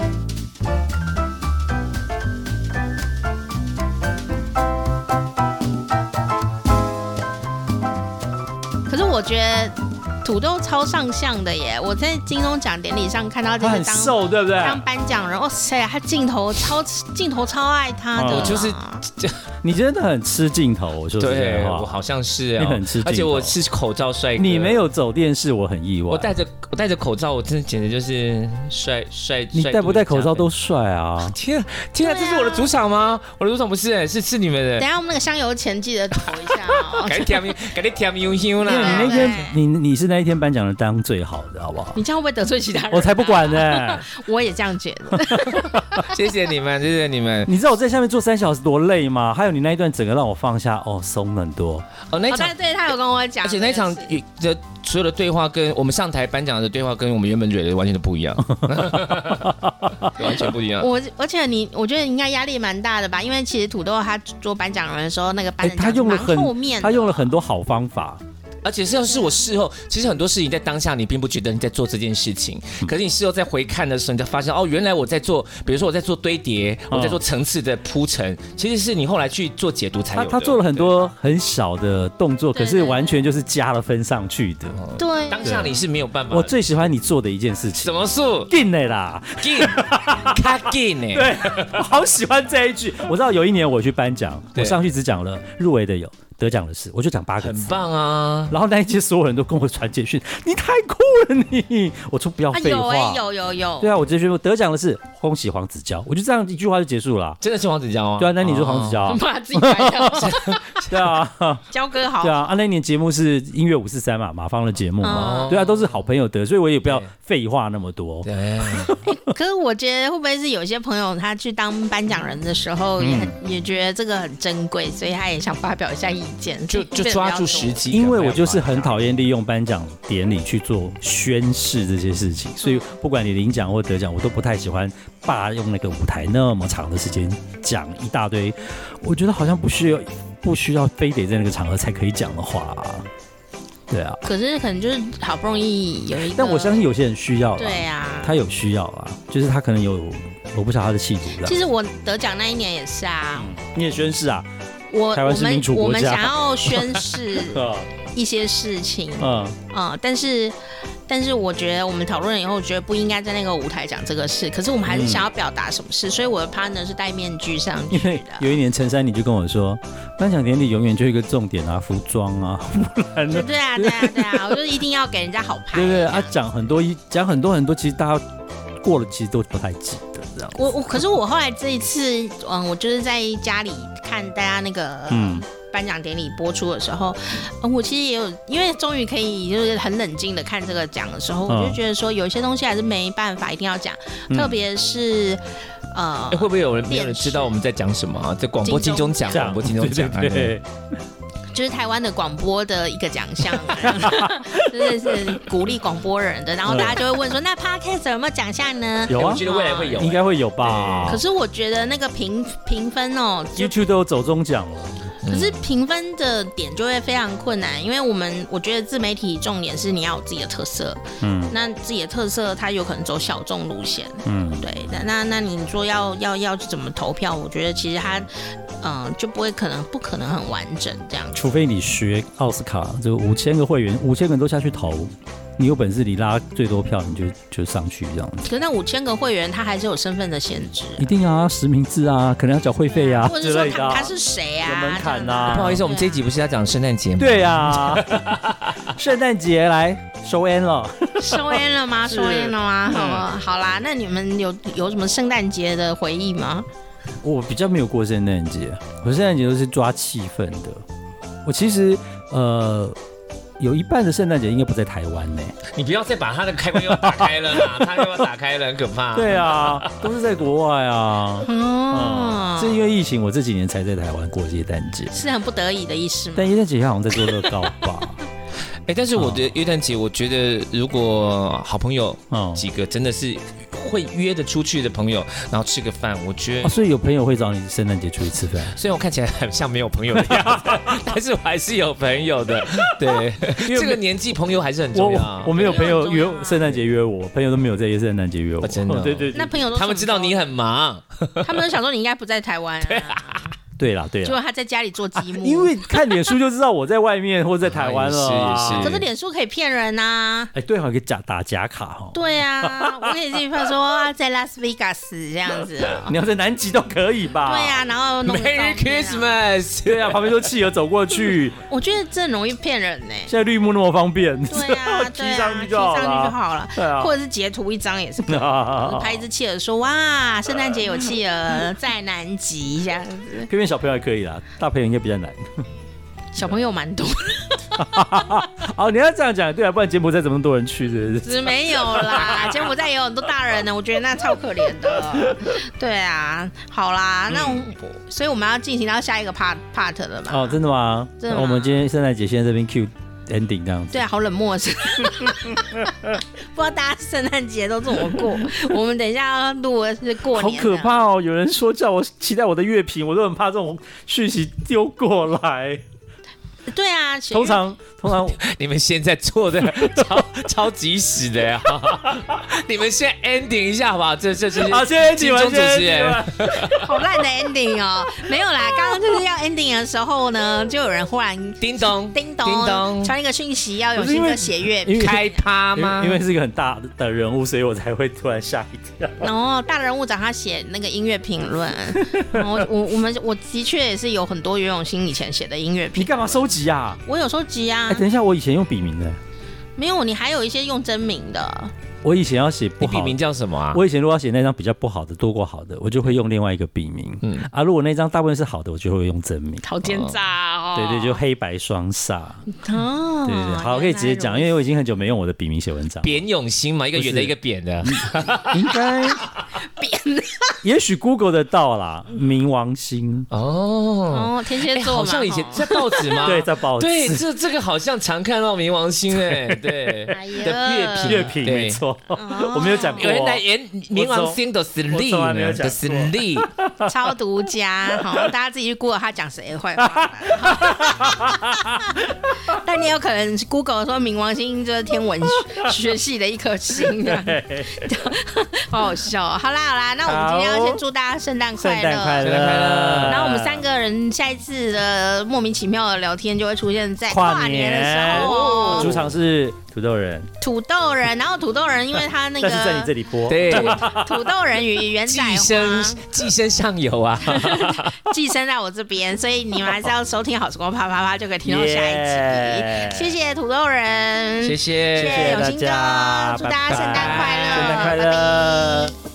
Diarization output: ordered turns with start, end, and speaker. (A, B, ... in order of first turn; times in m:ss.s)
0:08.9-0:19.0 A
0:13.6-0:14.8 B
0:18.1-0:18.6 B
0:18.3-0:19.4 C
0:19.6-0:21.9 B
0:21.2-0:24.8 C
0:22.6-0:23.6 B
0:24.4-0:26.3 B
0:26.1-0:30.5 C
0:29.5-0:31.4 B
0:31.2-0:34.8 C
0:32.0-0:32.7 A
0:34.8-0:37.4 A
0:36.5-0:39.3 C
0:38.6-0:39.6 A
0:38.6-0:42.0 B
0:41.9-0:46.2 A
0:42.9-0:44.1 B
0:45.2-0:45.8 B
0:46.0-0:47.5 C
0:47.4-0:51.8 B
0:52.1-0:52.5 C
0:52.3-0:54.1 A
0:53.4-1:00.9 C
0:58.5-1:00.1 B
1:00.8-1:07.3 A
1:05.6-1:08.2 B
1:08.6-1:21.0 C
1:16.9-1:17.2 B
1:20.1-1:24.8 B
1:22.5-1:23.2 A
1:24.7-1:26.7 C
1:25.0-1:25.6 A
1:25.4-1:25.8 B
1:26.3-1:27.9 B
1:27.8-1:28.5 C
1:28.5-1:37.8 B
1:29.4-1:31.8 C
1:34.5-1:34.8 C
1:37.4-1:38.5 C
1:38.5-1:43.2 B
1:42.5-1:43.9 A
1:43.8-1:47.4 B
1:47.4-1:49.0 C
1:48.2-1:51.6 B
1:49.0-1:50.6 A
1:50.2-1:51.0 C
1:51.7-1:52.4 A
1:52.2-1:59.2 B
1:55.0-1:55.6 A
1:55.1-1:55.9 C
1:56.8-1:57.1 C
1:58.2-1:58.9 C
1:59.0-2:07.8 A
2:03.0-2:03.3 B
2:06.7-2:09.0 C
2:07.9-2:23.1 B
2:12.6-2:12.9 A
2:23.9-2:24.2 B
2:24.2-2:26.8 A
2:26.3-2:31.6 B
2:27.6-2:28.4 A
2:31.4-2:33.6 A
2:33.4-2:34.5 B
2:34.9-2:48.5 A
2:35.1-2:37.9 B
2:39.2-2:39.6 B
2:44.8-2:45.2 B
2:47.9-2:54.6 B
2:53.3-2:56.4 A
2:55.7-2:58.2 B
2:58.8-3:00.7 B
3:00.5-3:17.6 A
3:05.1-3:05.4 B
3:11.5-3:11.8 B
3:14.3-3:14.6 B
3:16.3-3:20.6 C
3:18.6-3:19.2 A
3:19.3-3:20.6 B
3:21.5-3:30.1 A
3:23.5-3:25.4 B
3:26.6-3:27.0 B
3:29.1-3:31.2 B
3:29.1-3:31.1 C
3:31.0-3:33.8 A
3:33.6-3:35.1 B
3:35.2-3:35.6 C
3:35.3-3:51.4 A
3:41.2-3:41.5 B
3:44.2-3:44.6 B
3:51.4-3:58.5 B
3:58.4-4:01.1 A
4:01.0-4:05.8 B
4:02.9-4:06.2 A
4:05.5-4:08.8 C
4:07.2-4:13.2 B
4:11.2-4:16.7 A
4:17.2-4:20.8 B
4:21.4-4:23.0 B
4:23.6-4:25.6 B
4:25.7-4:30.0 C
4:26.7-4:28.3 B
4:29.1-4:35.2 B
4:31.4-4:32.8 A
4:35.1-4:36.6 A
4:36.3-4:38.2 B
4:37.2-4:37.5 A
4:38.9-4:46.7 C
4:39.2-4:39.5 B
4:42.3-4:42.6 B
4:46.6-4:48.7 B
4:48.7-4:55.9 C
4:50.2-4:51.0 B
4:53.5-4:54.0 B
4:54.9-4:59.5 B
4:55.5-4:56.8 A
4:58.6-5:01.7 C
4:59.3-5:00.5 A
5:01.4-5:03.5 A
5:02.8-5:03.4 C
5:03.8-5:04.4 B
5:04.2-5:06.2 A
5:05.2-5:09.0 B
5:07.6-5:09.0 C
5:08.7-5:10.5 A
5:10.5-5:13.4 B
5:12.1-5:16.1 A
5:16.0-5:17.8 B
5:17.4-5:19.3 A
5:18.2-5:20.4 C
5:19.8-5:21.6 B
5:21.6-5:23.3 A
5:23.3-5:27.1 B
5:24.5-5:33.5 A
5:28.2-5:29.2 B
5:33.5-5:35.4 B
5:36.3-5:38.4 A
5:37.8-5:42.7 B
5:41.2-5:50.6 A
5:50.3-5:54.0 B
5:51.2-5:51.8 A
5:53.9-6:01.0 A
5:55.0-5:56.2 B
6:00.3-6:05.8 B
6:06.7-6:07.6 A
6:07.3-6:08.4 B
6:08.4-6:16.8 C
6:09.6-6:10.2 B
6:14.6-6:17.0 B
6:16.7-6:25.4 A
6:21.6-6:23.1 C
6:23.9-6:29.3 B
6:24.9-6:26.2 C
6:29.2-6:36.1 A
6:31.9-6:32.7 B
6:36.0-6:37.0 B
6:37.0-6:38.0 A
6:37.9-6:39.2 B
6:39.8-6:41.7 A
6:42.0-6:43.2 B
6:42.8-6:43.8 C
6:43.7-6:49.8 B
6:47.2-6:47.5 C
6:49.6-6:51.2 A
6:49.8-6:50.2 C
6:50.7-6:52.4 B
6:52.5-6:54.6 A
6:53.2-6:56.2 B
6:56.0-6:58.7 C
6:56.9-6:59.2 B
6:59.6-7:00.6 A
7:00.6-7:03.3 B
7:03.3-7:11.8 C
7:04.1-7:06.2 A
7:06.2-7:07.2 B
7:09.1-7:10.1 B
7:10.1-7:11.3 A
7:11.0-7:14.4 B
7:12.1-7:13.1 A
7:13.0-7:16.5 C
7:14.9-7:17.0 B
7:16.8-7:32.5 A
7:17.9-7:18.3 B
7:19.8-7:22.6 B
7:25.4-7:25.8 B
7:26.8-7:28.1 B
7:30.0-7:30.8 B
7:31.6-7:33.6 B
7:32.2-7:33.2 C
7:33.0-7:39.0 A
7:37.1-7:40.3 B
7:38.1-7:39.0 C
7:40.4-7:46.0 A
7:42.4-7:44.2 B
7:43.3-7:43.8 C
7:45.0-7:48.0 C
7:47.3-7:58.9 A
7:51.4-7:53.1 B
7:54.4-7:55.4 C
7:54.9-7:58.9 B
7:56.7-7:57.9 C